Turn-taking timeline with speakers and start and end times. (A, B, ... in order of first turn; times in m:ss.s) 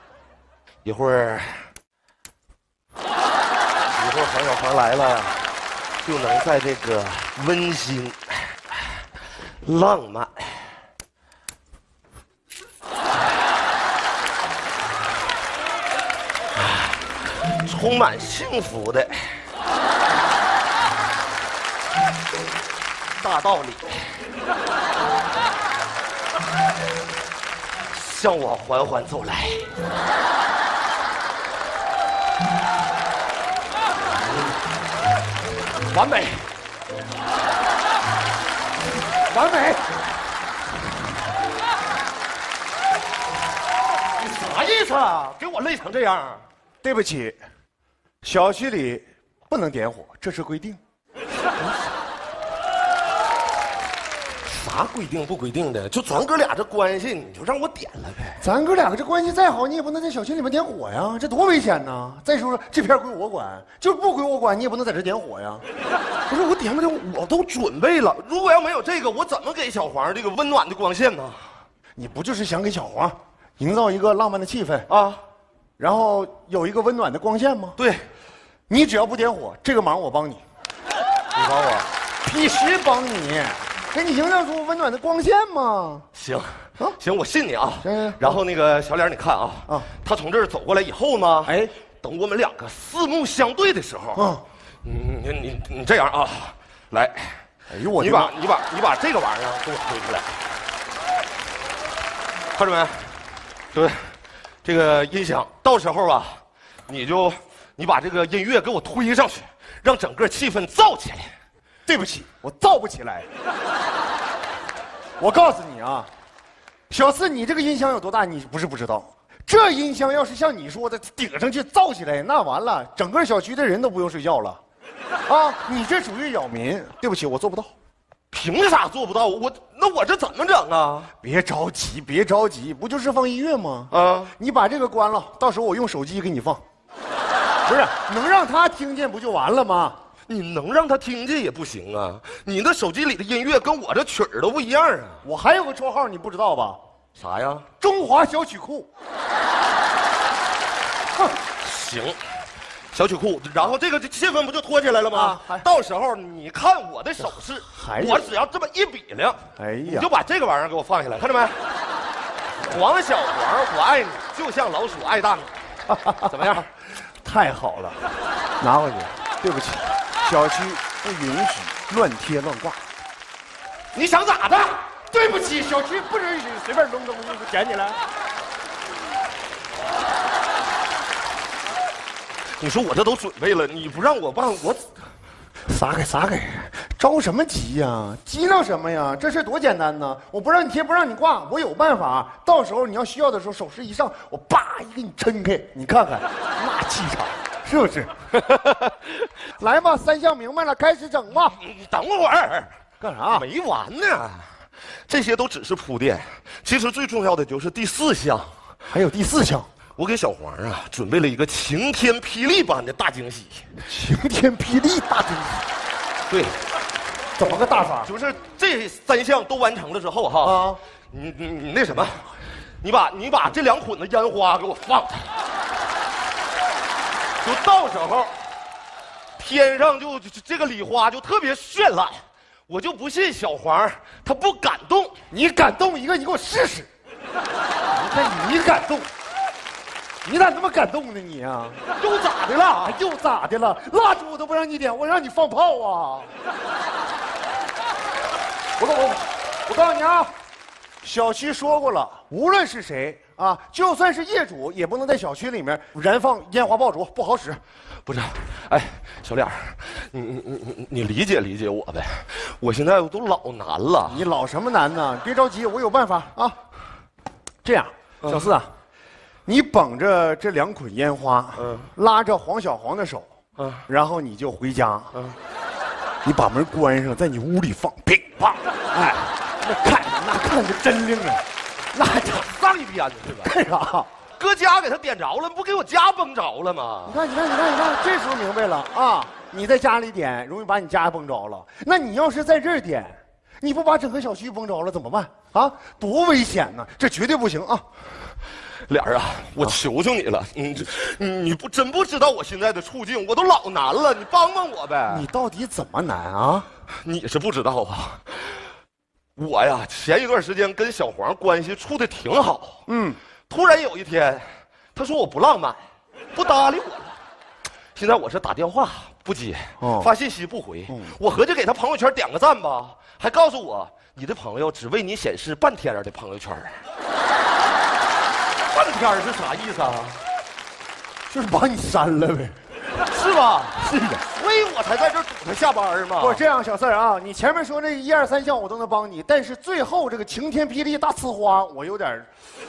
0:00.8-0:01.7 A
0:03.8-0:05.4 A
0:06.0-0:08.8 A
0:09.6-0:10.8 A
0:16.6-0:19.4 A
0:23.2-0:24.2 A
0:27.9-0:29.7 A
0:35.9-0:36.5 A
0:39.3-0:39.8 B
0:44.1-0:46.4 A
0:46.8-0:47.4 B
0:48.2-0:50.8 B
0:54.4-0:58.4 A
0:58.4-1:05.6 B
1:06.3-1:11.4 A
1:12.0-1:14.9 B
1:14.9-1:15.2 A
1:15.8-1:17.8 B
1:17.8-1:18.1 A
1:18.7-1:20.4 B
1:21.3-1:21.9 A
1:22.2-1:26.1 B
1:26.1-1:34.3 A
1:27.8-1:28.4 B
1:31.4-1:31.7 B
1:34.1-1:34.4 B
1:34.8-1:37.4 A
1:37.7-1:38.3 B
1:38.0-1:40.4 A
1:42.5-1:43.2 A
1:43.7-1:51.3 A
1:51.9-1:53.3 B
1:55.2-1:56.1 B
1:56.9-2:04.6 B
2:05.3-2:07.7 B
2:08.3-2:11.1 A
2:11.2-2:16.6 B
2:13.9-2:14.3 A
2:17.6-2:20.0 B
2:20.3-2:25.2 A
2:25.2-2:26.8 B
2:27.2-2:27.7 A
2:27.8-2:28.9 B
2:31.6-2:32.2 A
2:32.9-2:41.6 A
2:35.1-2:35.7 B
2:37.6-2:38.4 B
2:39.6-2:40.1 B
2:42.6-2:45.6 A
2:45.9-2:48.0 B
2:46.2-2:46.6 A
2:48.6-2:52.8 B
2:53.9-2:54.9 A
2:55.1-2:58.0 B
3:02.6-3:04.9 A
3:05.7-3:18.1 B
3:19.6-3:21.6 B
3:21.4-3:22.7 A
3:23.0-3:23.4 B
3:23.3-3:28.6 A
3:28.9-3:29.7 B
3:30.0-3:33.7 A
3:33.8-3:35.6 B
3:36.3-3:36.6 A
3:37.4-3:38.1 B
3:38.0-3:45.3 A
3:40.4-3:40.8 B
3:47.4-3:48.4 A
3:49.4-3:55.1 A
3:55.3-3:56.9 B
3:57.9-3:59.1 B
4:00.2-4:01.8 B
4:02.0-4:03.0 A
4:02.6-4:06.3 B
4:08.8-4:10.3 B
4:11.0-4:17.6 B
4:18.1-4:24.2 A
4:24.1-4:26.6 B
4:27.6-4:28.7 B
4:29.5-4:33.3 B
4:31.6-4:31.9 A
4:33.6-4:33.8 A
4:33.9-4:35.1 B
4:35.1-4:35.4 A
4:36.2-4:41.4 B
4:41.9-4:42.4 B
4:42.0-4:43.5 A
4:43.4-4:44.1 B
4:44.4-4:47.2 A
4:47.0-4:57.8 B
4:58.9-5:05.2 A
5:05.1-5:06.7 B
5:07.0-5:08.6 A
5:09.4-5:12.8 A
5:12.9-5:13.2 B
5:13.5-5:15.8 A
5:16.3-5:17.2 A
5:17.9-5:26.8 A
5:19.8-5:20.1 B
5:20.9-5:21.2 B
5:28.7-5:30.2 A
5:31.3-5:32.6 B
5:33.1-5:36.4 A
5:33.8-5:34.2 B
5:36.2-5:42.3 B